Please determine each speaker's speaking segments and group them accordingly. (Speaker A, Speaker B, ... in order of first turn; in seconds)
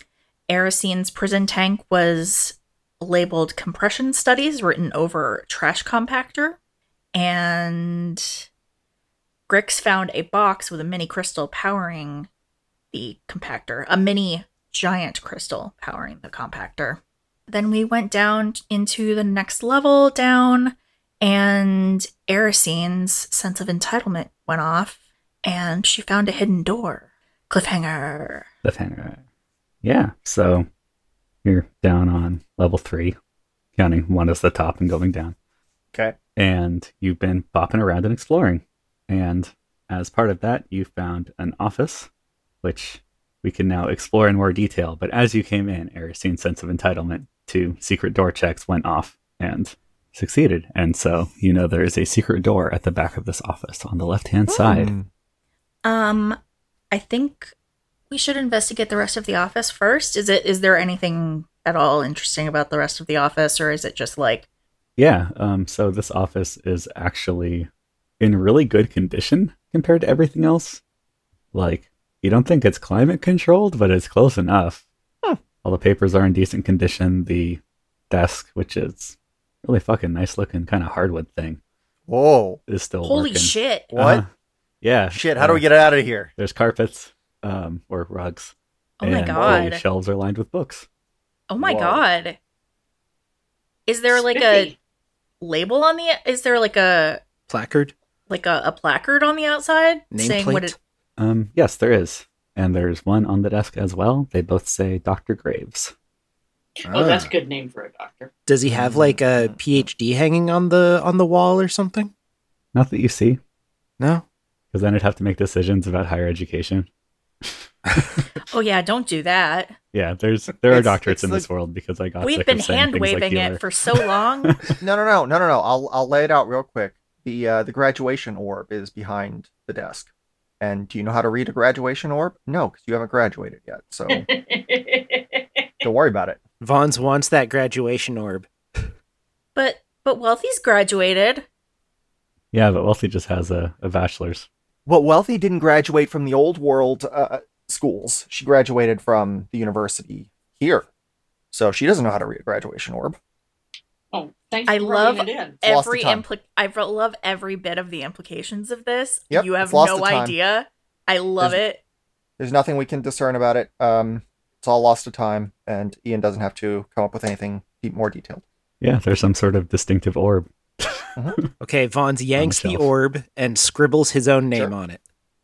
Speaker A: 0.5-6.6, 7.1-8.5, 9.5-12.3, 12.9-28.5, 55.8-56.4, 56.9-57.5, 58.1-64.5, 83.0-83.9, 89.0-89.8, 91.5-92.4, 93.9-94.7, 95.4-97.2, 98.3-100.8, 118.4-119.8, 122.2-124.5, 139.6-141.5, 154.7-161.8
Speaker B: 28.6-29.2, 29.8-30.7, 31.4-33.2, 33.8-35.4, 36.4-42.1, 42.6-54.9, 65.0-67.7, 68.2-70.8, 71.5-74.8, 75.6-81.6, 82.7-84.3, 84.8-85.7, 86.4-90.8, 101.2-105.9, 112.7-113.4, 114.7-116.9, 117.4-118.3, 119.9-123.6, 124.5-124.8, 142.5-144.5, 168.8-171.4, 172.4-172.9
Speaker C: 54.5-55.1, 82.1-82.6, 83.9-84.2, 85.1-86.3, 89.4-89.6, 91.6-92.0, 108.7-109.8, 120.7-121.5, 124.8-130.1, 130.6-134.3, 135.8-136.4, 144.9-150.9, 151.5-153.2, 155.6-156.2, 159.3-160.3, 162.4-168.4
Speaker D: 94.1-94.8, 106.8-108.3, 134.1-135.9, 154.1-155.6
Speaker E: 97.5-97.9, 100.1-100.8, 106.9-107.3, 108.5-112.1, 136.6-138.5, 171.6-175.0